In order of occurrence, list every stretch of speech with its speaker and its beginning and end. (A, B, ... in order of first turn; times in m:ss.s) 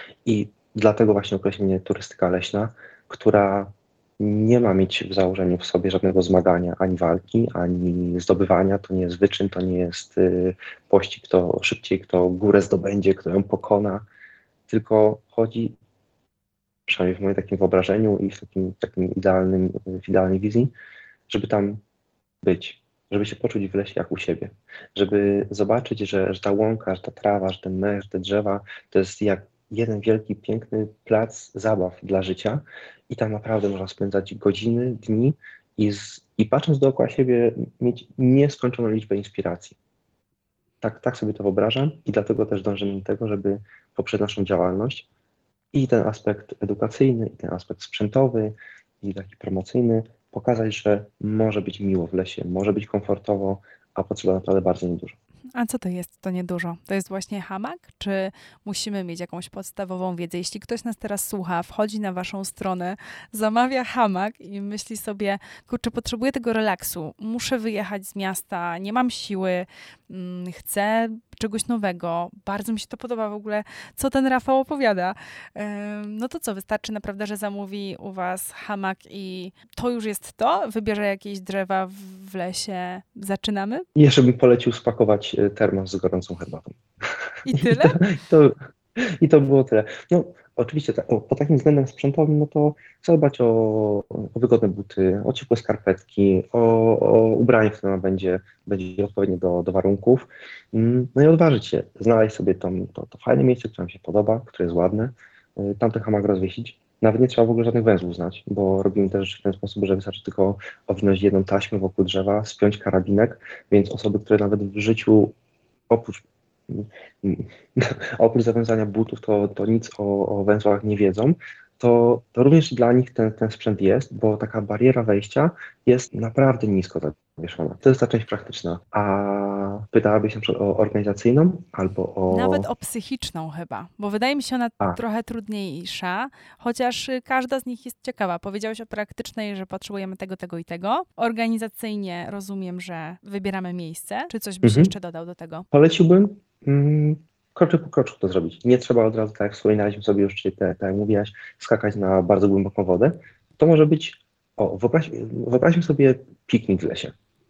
0:00.2-0:14.1 A
0:14.7-0:15.8 A
0:16.9-0:20.7 A
0:21.3-0:21.8 A
0:22.4-0:39.8 A
0:40.8-0:45.1 A
0:45.7-0:55.2 A
0:55.6-1:23.8 B
1:24.0-1:26.8 A
1:27.5-1:28.0 B
1:27.5-1:55.4 A
1:55.9-2:12.7 A
2:12.3-2:25.7 B
2:24.6-2:24.9 A
2:25.7-2:37.1 A